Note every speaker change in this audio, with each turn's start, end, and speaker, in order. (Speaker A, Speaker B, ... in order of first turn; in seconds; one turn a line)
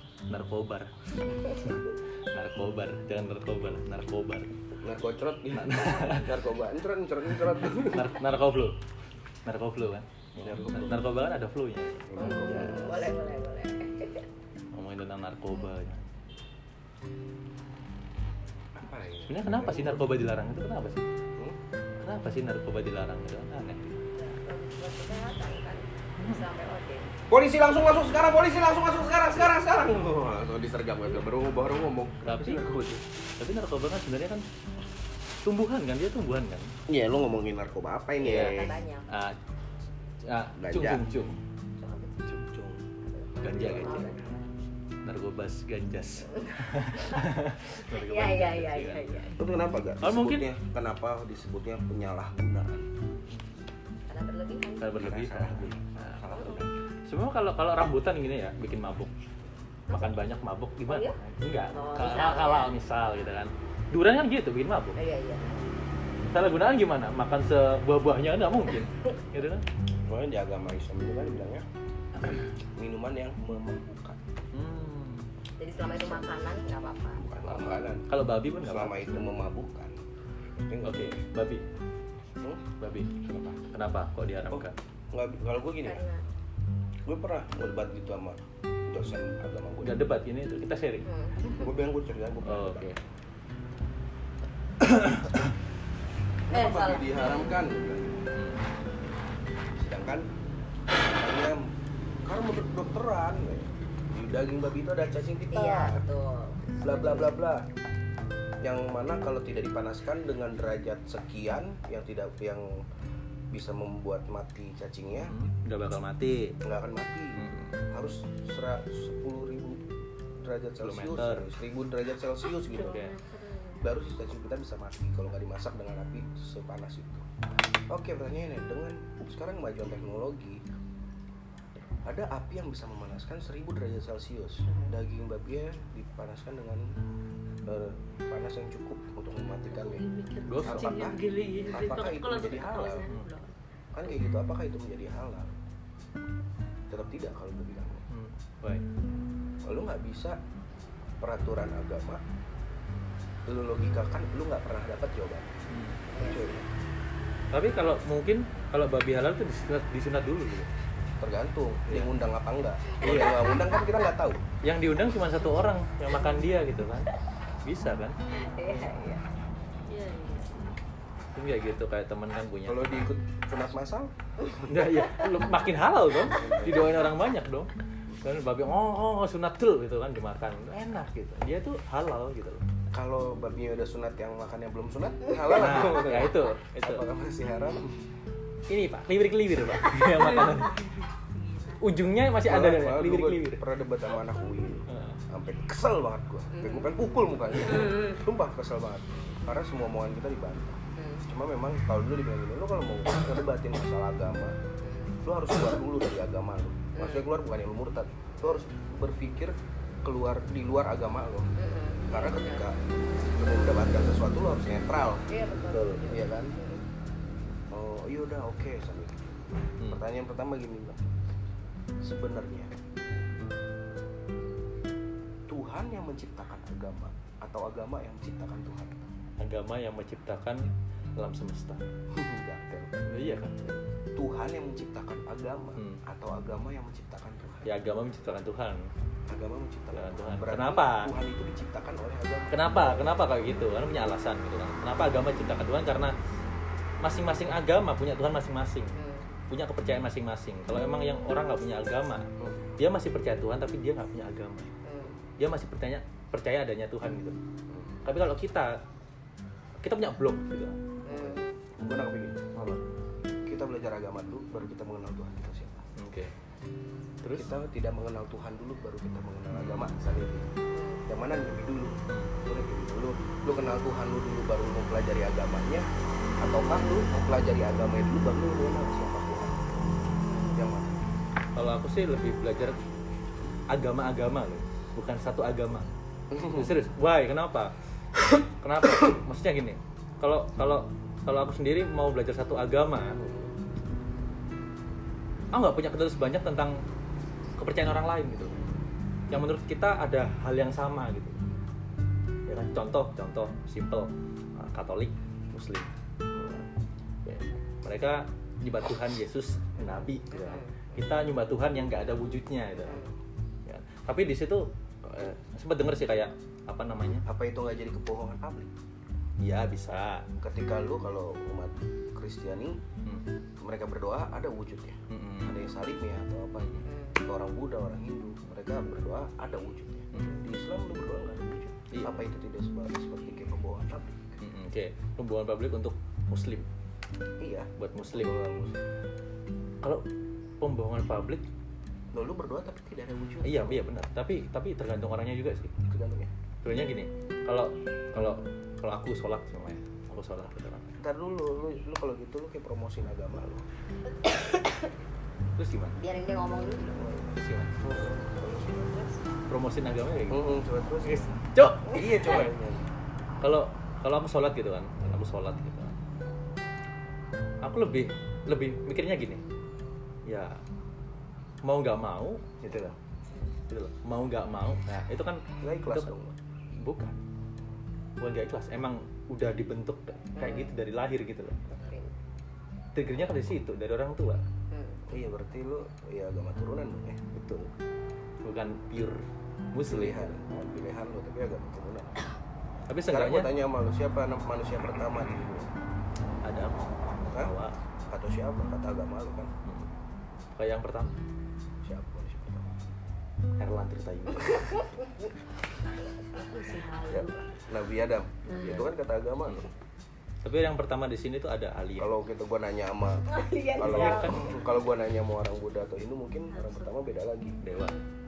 Speaker A: 0.3-0.9
Speaker A: 1.5-4.6
Speaker B: 4.8-8.2
Speaker A: 5.5-6.3
Speaker A: 7.7-8.8
Speaker A: 9.5-12.9
Speaker B: 10.4-11.1
Speaker B: 12.1-13.1
Speaker C: 12.2-14.3
Speaker A: 14.7-16.1
Speaker B: 18.8-20.1
Speaker A: 19.3-21.1
Speaker A: 22.0-23.8
Speaker C: 24.1-27.1
Speaker A: 26.2-26.5
Speaker B: 27.3-33.0
Speaker A: 32.2-32.6
Speaker A: 33.4-34.4
Speaker A: 35.4-36.7
Speaker B: 36.9-38.8
Speaker C: 38.2-39.1
Speaker A: 38.2-39.4
Speaker A: 40.3-41.4
Speaker B: 40.6-41.0
Speaker C: 41.8-42.2
Speaker B: 42.3-44.1
Speaker C: 43.0-44.4
Speaker A: 43.4-44.1
Speaker A: 45.0-49.4
Speaker C: 46.3-46.5
Speaker C: 47.8-49.4
Speaker B: 49.4-52.9
Speaker A: 50.0-50.5
Speaker C: 54.1-55.0
Speaker A: 54.8-56.2
Speaker B: 55.0-56.7
Speaker C: 56.3-56.6
Speaker A: 57.1-59.1
Speaker C: 59.9-60.2
Speaker A: 59.9-65.0
Speaker C: 60.9-61.2
Speaker C: 61.7-62.7
Speaker C: 65.0-65.7
Speaker A: 66.3-69.7
Speaker B: 70.1-71.7
Speaker B: 72.2-74.2
Speaker A: 74.5-75.3
Speaker C: 75.6-77.2
Speaker B: 77.2-80.0
Speaker A: 77.5-79.3
Speaker B: 80.7-81.2
Speaker A: 80.8-81.6
Speaker A: 82.8-84.8
Speaker B: 84.5-86.1
Speaker C: 85.8-86.2
Speaker B: 87.1-90.1
Speaker A: 89.8-91.1
Speaker C: 91.1-91.7
Speaker B: 91.5-92.9
Speaker A: 92.4-93.0
Speaker A: 94.8-95.5
Speaker B: 96.5-98.3
Speaker D: 96.5-97.1
Speaker A: 98.4-98.6
Speaker B: 99.8-100.3
Speaker B: 101.0-101.7
Speaker B: 102.2-106.0
Speaker C: 105.5-107.4
Speaker B: 106.8-107.7
Speaker B: 108.6-112.8
Speaker B: 113.5-115.3
Speaker A: 115.3-116.6
Speaker B: 116.6-119.8
Speaker A: 117.4-117.8
Speaker B: 120.4-123.1
Speaker A: 120.8-121.5
Speaker D: 122.4-123.9
Speaker A: 122.8-123.1
Speaker B: 123.8-127.3
Speaker B: 127.9-130.6
Speaker B: 132.1-136.9
Speaker B: 137.7-140.1
Speaker D: 139.7-143.5
Speaker A: 140.5-141.1
Speaker B: 140.6-143.1
Speaker B: 143.9-145.6
Speaker B: 146.9-148.0
Speaker A: 148.1-148.8
Speaker B: 149.6-150.4
Speaker B: 151.2-152.2
Speaker B: 153.5-155.6
Speaker A: 155.7-156.0
Speaker C: 156.1-156.6
Speaker B: 156.2-156.7
Speaker A: 157.5-160.7
Speaker B: 161.2-164.4
Speaker A: 161.9-162.2
Speaker A: 163.0-163.5
Speaker A: 164.6-167.1
Speaker A: 167.6-168.2
Speaker C: 168.3-169.2
Speaker D: 169.9-170.7
Speaker A: 171.3-173.1
Speaker B: 172.7-174.1
Speaker A: 174.6-177.7
Speaker B: 176.2-177.1
Speaker A: 178.2-182.6
Speaker B: 182.9-188.0
Speaker A: 185.5-187.1
Speaker A: 188.7-190.9
Speaker A: 191.7-193.7
Speaker B: 192.4-204.6
Speaker A: 194.9-195.2
Speaker C: 196.5-196.9
Speaker C: 201.0-201.2
Speaker C: 204.8-205.2
Speaker B: 205.2-211.5
Speaker C: 207.0-207.3
Speaker C: 211.6-212.7
Speaker B: 212.1-216.5
Speaker C: 215.3-216.8
Speaker B: 217.7-221.0
Speaker B: 222.0-222.7
Speaker B: 225.5-229.0
Speaker A: 229.4-231.8
Speaker B: 232.1-232.9
Speaker A: 233.1-233.7
Speaker B: 234.2-237.7
Speaker A: 237.7-238.8
Speaker B: 239.3-243.3
Speaker A: 239.9-241.1
Speaker A: 242.5-246.2
Speaker A: 247.0-248.9
Speaker C: 248.9-249.3
Speaker A: 249.5-252.3
Speaker A: 252.8-254.7
Speaker C: 254.8-255.2
Speaker A: 255.4-257.4
Speaker B: 257.7-258.0
Speaker A: 258.1-258.8
Speaker A: 259.8-260.8
Speaker C: 261.1-261.5
Speaker B: 261.1-262.5
Speaker A: 262.6-262.8
Speaker B: 263.5-265.8
Speaker A: 266.0-266.3
Speaker A: 267.2-267.5
Speaker B: 267.3-270.5
Speaker A: 269.5-270.0
Speaker C: 270.7-271.0
Speaker B: 271.1-275.9
Speaker A: 272.1-272.3
Speaker B: 276.4-279.9
Speaker C: 280.2-280.6
Speaker B: 280.5-281.0
Speaker A: 281.6-282.8
Speaker A: 283.7-285.9
Speaker B: 286.3-286.8
Speaker A: 286.5-287.7
Speaker A: 288.6-293.2
Speaker B: 293.2-293.5
Speaker A: 295.5-296.8
Speaker A: 297.6-298.6
Speaker A: 299.3-301.4
Speaker A: 302.5-305.9
Speaker B: 306.4-306.6
Speaker A: 307.2-313.1
Speaker C: 310.3-311.0
Speaker A: 313.7-317.3
Speaker B: 317.3-318.7
Speaker A: 319.4-320.3
Speaker B: 320.4-322.8
Speaker B: 323.6-334.4
Speaker A: 325.1-325.7
Speaker C: 326.9-327.2
Speaker A: 330.1-330.5
Speaker A: 331.9-332.3
Speaker A: 334.4-336.7
Speaker B: 337.4-338.8
Speaker A: 337.8-338.3
Speaker A: 340.6-341.4
Speaker B: 342.1-343.8
Speaker A: 343.4-345.7
Speaker B: 345.9-346.3
Speaker A: 346.6-351.0
Speaker B: 351.0-353.6
Speaker A: 355.6-356.0
Speaker C: 356.0-357.1
Speaker B: 356.9-358.9
Speaker A: 357.3-357.8
Speaker C: 358.9-359.2
Speaker A: 359.5-360.4
Speaker B: 360.3-361.3
Speaker A: 361.1-362.5
Speaker B: 361.9-362.9
Speaker A: 363.4-365.9
Speaker A: 367.6-369.4
Speaker A: 370.3-370.6
Speaker A: 371.6-373.0
Speaker A: 373.7-376.1
Speaker B: 375.6-376.4
Speaker A: 376.8-377.2
Speaker A: 378.2-381.6
Speaker C: 380.4-380.8
Speaker C: 381.7-382.1
Speaker A: 382.9-384.4
Speaker C: 384.7-385.1
Speaker B: 385.1-387.6
Speaker A: 388.4-390.4
Speaker B: 389.9-392.2
Speaker A: 392.9-393.6
Speaker B: 393.1-395.7
Speaker A: 396.4-397.8
Speaker B: 397.3-397.5
Speaker B: 398.1-399.5
Speaker A: 399.7-399.9
Speaker A: 400.6-401.2
Speaker B: 401.8-402.7
Speaker A: 403.6-404.8
Speaker D: 406.3-407.5
Speaker B: 407.1-409.7
Speaker C: 408.5-408.8
Speaker A: 408.6-408.9
Speaker A: 410.4-412.2
Speaker B: 412.0-413.3
Speaker C: 413.3-414.6
Speaker B: 413.8-417.6
Speaker A: 413.8-414.4
Speaker D: 416.5-416.9
Speaker A: 417.6-418.0